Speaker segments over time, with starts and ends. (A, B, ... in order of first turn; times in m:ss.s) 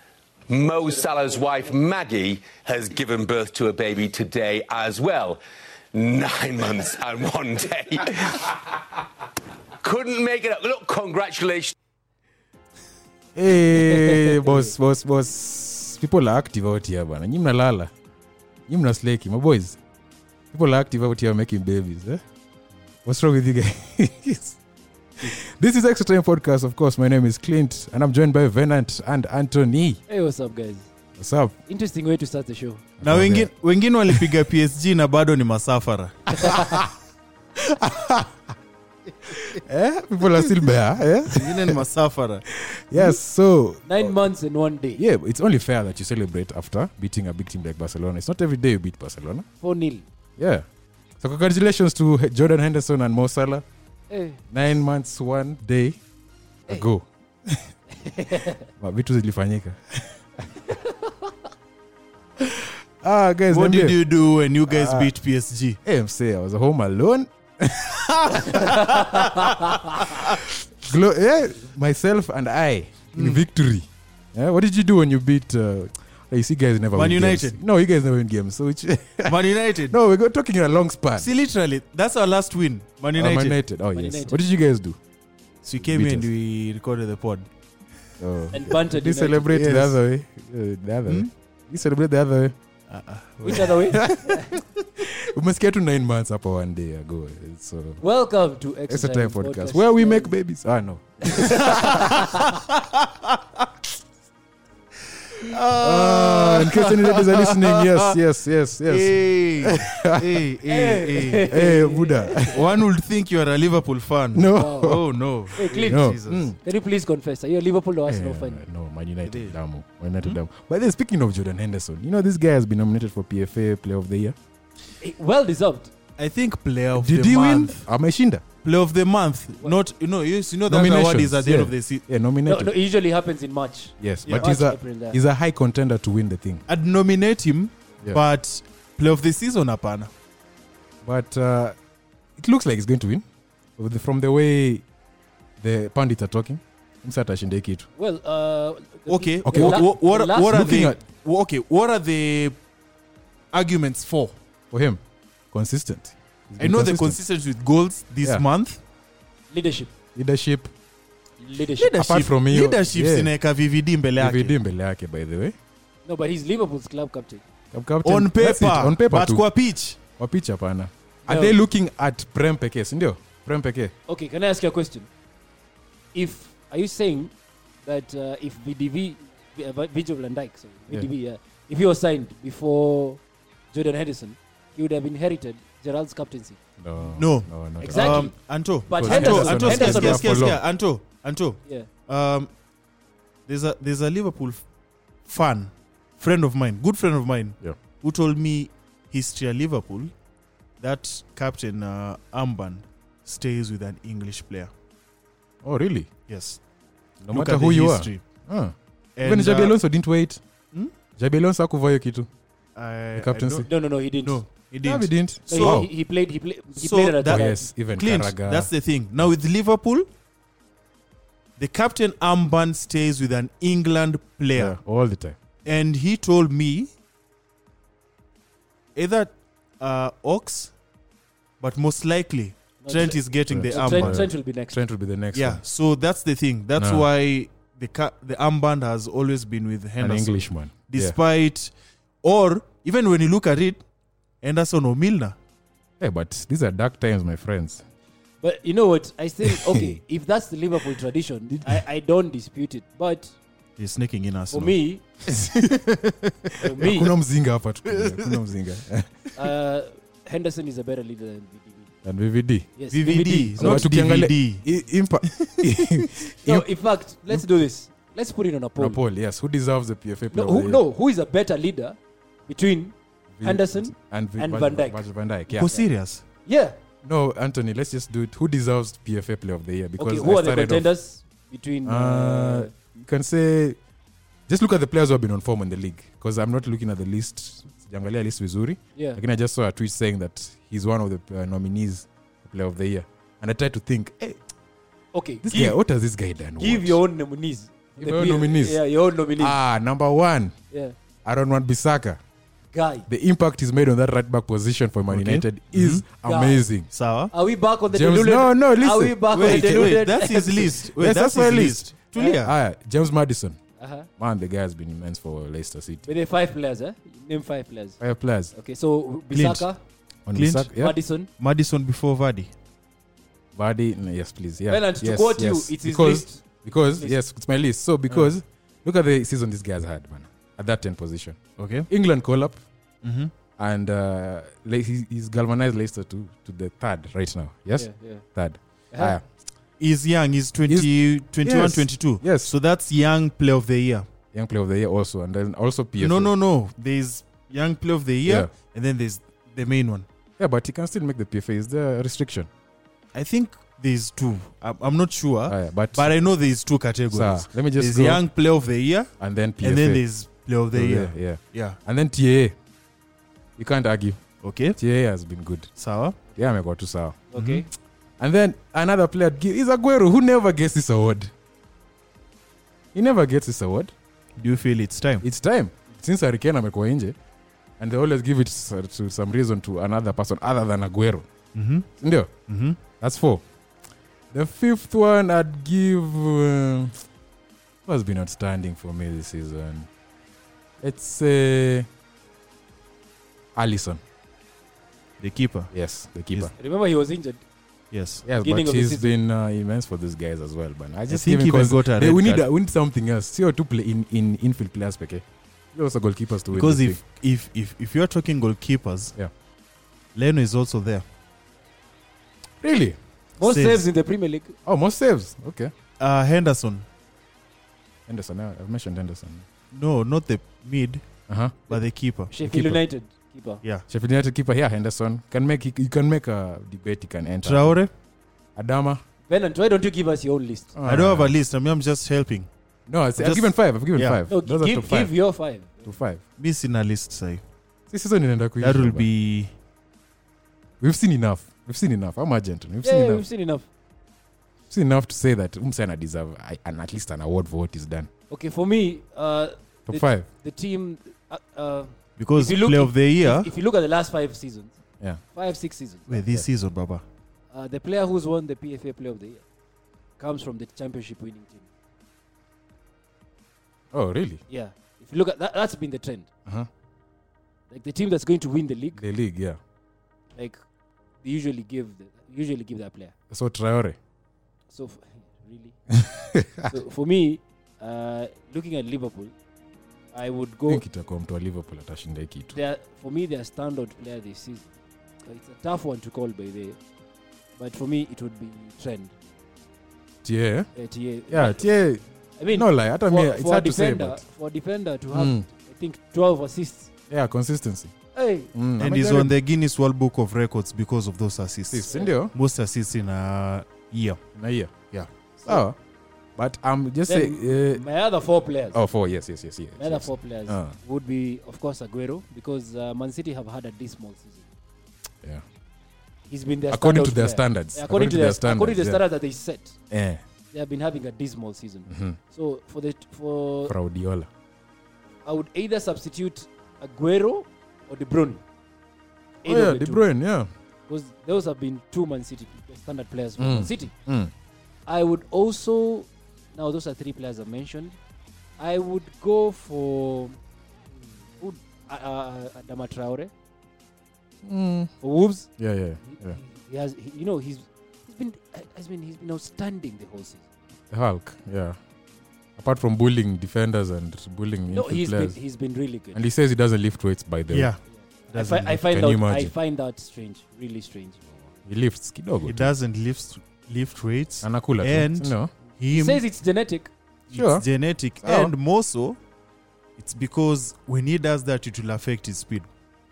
0:00.5-0:05.4 A
0:05.9-0:08.8 A
0:09.8-0:11.8 A
0:13.3-0:17.9 B
0:13.9-0:14.6 C
0:18.7-0:19.8 B
0:20.5-0:22.2 B
0:23.0-0:24.6 B
0:25.2-0:30.0 B
0:30.1-0:30.9 C
0:31.2-0:31.6 B
0:31.7-0:32.8 C
0:33.0-0:33.5 B
0:33.0-0:36.6 D
0:34.1-0:34.3 B
0:36.3-0:36.9 B
0:37.6-0:38.5 B
0:39.2-0:41.8 B
0:41.3-0:42.4 D
0:42.5-0:44.0 B
0:43.9-0:45.0 C
0:45.0-0:49.4 B
0:49.6-0:50.0 C
0:50.4-0:50.7 B
0:51.2-0:53.6 B
0:54.1-0:54.4 C
0:54.5-0:56.0 B
0:56.7-0:57.7 B
0:58.0-0:58.7 C
0:58.8-1:00.5 B
1:02.4-1:04.0 B
1:03.5-1:05.8 D
1:04.7-1:05.1 B
1:05.8-1:09.0 B
1:08.4-1:10.0 C
1:08.5-1:09.1 D
1:10.0-1:21.3 B
1:13.1-1:13.4 D
1:16.9-1:17.6 D
1:19.2-1:20.0 D
1:21.2-1:23.6 D
1:23.2-1:25.0 B
1:24.0-1:24.4 C
1:25.6-1:27.5 D
1:25.8-1:26.3 B
1:28.2-1:32.6 B
1:28.5-1:29.6 C
1:29.5-1:30.0 D
1:32.9-1:34.1 D
1:33.4-1:34.6 C
1:33.5-1:38.0 B
1:38.0-1:40.3 C
1:38.9-1:42.2 B
1:41.3-1:42.5 C
1:42.8-1:43.3 D
1:45.3-1:48.2 D
1:45.8-1:50.4 B
1:48.9-1:51.6 D
1:50.7-1:52.5 C
1:51.5-1:52.8 B
1:52.5-1:56.5 D
1:54.3-1:55.0 B
1:54.6-1:55.0 C
1:55.6-1:56.6 B
1:55.6-1:58.6 C
1:58.1-2:04.4 B
1:59.2-1:59.6 D
2:05.0-2:05.9 C
2:06.2-2:07.8 D
2:06.9-2:08.4 B
2:08.6-2:12.0 D
2:10.7-2:12.7 B
2:12.4-2:15.2 C
2:14.0-2:16.6 B
2:16.7-2:20.1 D
2:21.0-2:21.8 B
2:22.4-2:23.2 B
2:23.8-2:24.8 B
2:25.6-2:27.8 B
2:28.0-2:30.6 C
2:29.1-2:32.6 D
2:29.5-2:29.9 B
2:30.4-2:31.0 B
2:33.5-2:34.3 D
2:34.7-2:35.0 B
2:35.5-2:37.2 B
2:36.6-2:38.8 D
2:39.5-2:39.9 C
2:40.2-2:40.7 B
2:41.4-2:41.9 C
2:41.8-2:44.6 D
2:41.9-2:43.3 B
2:44.2-2:45.6 B
2:46.1-2:47.4 C
2:47.7-2:49.5 B
2:48.0-2:50.0 D
2:50.2-2:53.9 B
2:51.2-2:51.6 C
2:54.1-2:55.1 C
2:56.1-2:57.3 C
2:57.8-3:03.2 C
3:03.7-3:06.6 C
3:06.8-3:08.4 B
3:07.0-3:12.5 D
3:07.8-3:10.4 C
3:08.9-3:10.6 B
3:13.5-3:14.6 D
3:15.2-3:20.1 D
3:20.8-3:24.7 D
3:25.6-3:26.1 B
3:26.3-3:26.6 D
3:27.2-3:30.4 B
3:27.3-3:28.2 D
3:29.2-3:29.8 D
3:31.2-3:32.3 B
3:32.8-3:35.9 D
3:33.1-3:33.7 B
3:33.6-3:34.4 C
3:34.8-3:35.9 B
3:35.5-3:37.6 C
3:36.8-3:40.1 D
3:37.2-3:38.7 B
3:41.6-3:44.8 D
3:44.6-3:45.4 B
3:45.6-3:46.9 D
3:48.9-3:50.7 D
3:51.6-3:54.3 D
3:52.8-3:54.8 C
3:53.5-3:55.6 B
3:55.3-4:03.8 D
3:56.8-3:57.1 B
4:00.0-4:01.2 B
4:04.4-4:05.4 D
4:06.0-4:07.8 B
4:08.4-4:13.3 C
4:09.5-4:10.0 B
4:11.5-4:11.8 B
4:13.8-4:14.8 D
4:14.5-4:15.0 C
4:15.3-4:15.9 B
4:16.5-4:19.4 B
4:16.6-4:17.1 C
4:17.9-4:18.4 D
4:19.3-4:21.9 C
4:22.0-4:22.7 B
4:22.8-4:23.9 C
4:22.9-4:24.7 D
4:23.6-4:26.7 B
4:25.2-4:26.1 D
4:26.4-4:29.0 C
4:28.8-4:30.8 B
4:30.3-4:35.0 C
4:33.3-4:35.8 B
4:35.5-4:36.2 D
4:36.4-4:36.8 C
4:37.0-4:40.9 B
4:40.0-4:42.7 C
4:41.8-4:43.8 B
4:44.5-4:54.4 B
4:55.1-4:55.8 C
4:55.4-4:57.0 B
4:56.6-4:59.6 C
4:58.0-4:58.8 B
4:59.4-5:00.6 B
5:01.2-5:02.2 B
5:02.7-5:03.1 C
5:03.1-5:06.9 B
5:05.1-5:06.0 D
5:06.2-5:06.6 C
5:06.9-5:07.3 D
5:07.3-5:10.8 C
5:07.9-5:10.2 B
5:09.3-5:12.6 D
5:10.9-5:13.6 B
5:13.8-5:14.1 C
5:14.2-5:16.1 B
5:16.1-5:18.0 C
5:18.0-5:18.5 B
5:18.5-5:19.8 C
5:19.3-5:19.7 D
5:20.3-5:20.9 B
5:20.4-5:20.7 D
5:20.8-5:21.3 C
5:21.4-5:22.5 D
5:23.6-5:32.6 B
5:24.7-5:27.2 C
5:31.6-5:31.9 D
5:33.0-5:33.3 D
5:33.6-5:39.2 B
5:37.8-5:38.2 C
5:38.9-5:39.2 C
5:39.8-5:44.0 D
5:40.7-5:42.5 B
5:44.3-5:46.3 B
5:46.0-5:50.1 D
5:48.2-5:48.5 B
5:50.4-5:52.5 B
5:53.1-6:01.8 D
5:55.5-5:56.1 B
5:57.1-5:58.2 B
5:59.2-6:00.0 B
6:00.7-6:02.6 B
6:03.6-6:04.2 B
6:04.4-6:04.8 D
6:04.8-6:05.7 B
6:05.8-6:06.2 D
6:06.4-6:07.3 B
6:07.3-6:07.7 C
6:07.4-6:07.6 D
6:08.2-6:11.3 B
6:12.9-6:13.9 B
6:14.4-6:15.2 D
6:15.2-6:17.1 B
6:17.8-6:21.3 B
6:21.6-6:21.9 D
6:22.0-6:22.3 B
6:22.5-6:22.8 D
6:22.9-6:23.4 B
6:24.3-6:27.0 B
6:27.9-6:29.9 B
6:30.8-6:31.9 B
6:33.6-6:34.0 B
6:35.2-6:35.7 D
6:35.7-6:36.5 B
6:36.6-6:37.4 C
6:37.9-6:38.2 D
6:38.2-6:47.0 B
6:38.4-6:39.2 C
6:41.1-6:42.4 D
6:46.5-6:49.1 D
6:50.1-6:51.0 D
6:52.6-6:53.0 B
6:53.4-6:54.6 C
6:53.4-6:53.9 D
6:54.7-6:55.7 B
6:56.0-6:56.8 D
6:58.1-6:59.4 B
6:59.7-7:01.1 D
7:01.3-7:01.8 B
7:01.7-7:02.3 D
7:02.3-7:03.6 C
7:02.4-7:02.8 B
7:03.9-7:07.7 B
7:07.4-7:07.9 D
7:08.6-7:09.0 B
7:09.3-7:10.8 C
7:10.8-7:11.3 B
7:10.9-7:12.5 D
7:12.9-7:15.1 B
7:13.2-7:14.2 D
7:14.3-7:15.9 C
7:15.8-7:16.2 B
7:16.4-7:17.4 D
7:17.9-7:19.1 B
7:18.6-7:19.5 D
7:20.8-7:23.2 B
7:22.8-7:23.7 C
7:24.7-7:28.1 B
7:28.3-7:34.7 C
7:29.9-7:30.3 B
7:32.2-7:33.5 D
7:35.3-7:36.2 C
7:36.1-7:37.0 D
7:37.5-7:39.4 C
7:40.2-7:41.7 C
7:43.9-7:44.4 B
7:44.5-7:46.3 C
7:47.7-7:49.0 C
7:48.9-7:49.6 B
7:51.2-7:53.1 C
7:53.3-7:54.0 B
7:54.7-7:55.8 C
7:55.9-7:56.7 B
7:56.6-7:59.3 C
8:00.1-8:00.8 C
8:00.7-8:02.6 B
8:02.5-8:04.7 C
8:05.2-8:06.8 C
8:07.6-8:09.1 C
8:10.2-8:10.7 B
8:10.8-8:11.7 C
8:11.3-8:14.2 B
8:12.4-8:16.9 C
8:15.1-8:15.5 B
8:17.1-8:17.9 B
8:18.1-8:18.5 C
8:18.5-8:19.3 B
8:18.8-8:24.2 D
8:21.7-8:22.3 B
8:24.3-8:24.7 B
8:25.4-8:25.8 B
8:26.4-8:27.8 B
8:27.1-8:28.8 C
8:28.7-8:30.7 B
8:29.8-8:34.4 C
8:36.3-8:39.8 C
8:36.7-8:39.0 B
8:39.9-8:40.2 B
8:40.5-8:43.7 C
8:41.9-8:42.2 B
8:43.7-8:44.3 B
8:45.2-8:48.4 C
8:49.4-8:50.0 C
8:49.4-8:50.5 B
8:50.9-8:53.9 C
8:53.4-8:54.3 B
8:54.9-8:58.0 C
8:58.6-9:00.4 C
9:01.3-9:03.3 C
9:04.4-9:04.9 B
9:05.0-9:05.5 C
9:05.6-9:06.4 B
9:06.0-9:10.4 C
9:10.9-9:11.8 B
9:12.6-9:15.4 B
9:14.7-9:16.2 C
9:16.1-9:17.7 B
9:17.5-9:17.8 D
9:18.3-9:21.5 C
9:18.3-9:18.8 D
9:18.9-9:19.5 B
9:21.6-9:22.7 B
9:22.4-9:26.2 D
9:24.4-9:25.5 B
9:25.9-9:26.9 C
9:27.3-9:29.2 D
9:27.3-9:27.6 B
9:28.2-9:28.5 B
9:30.0-9:32.7 D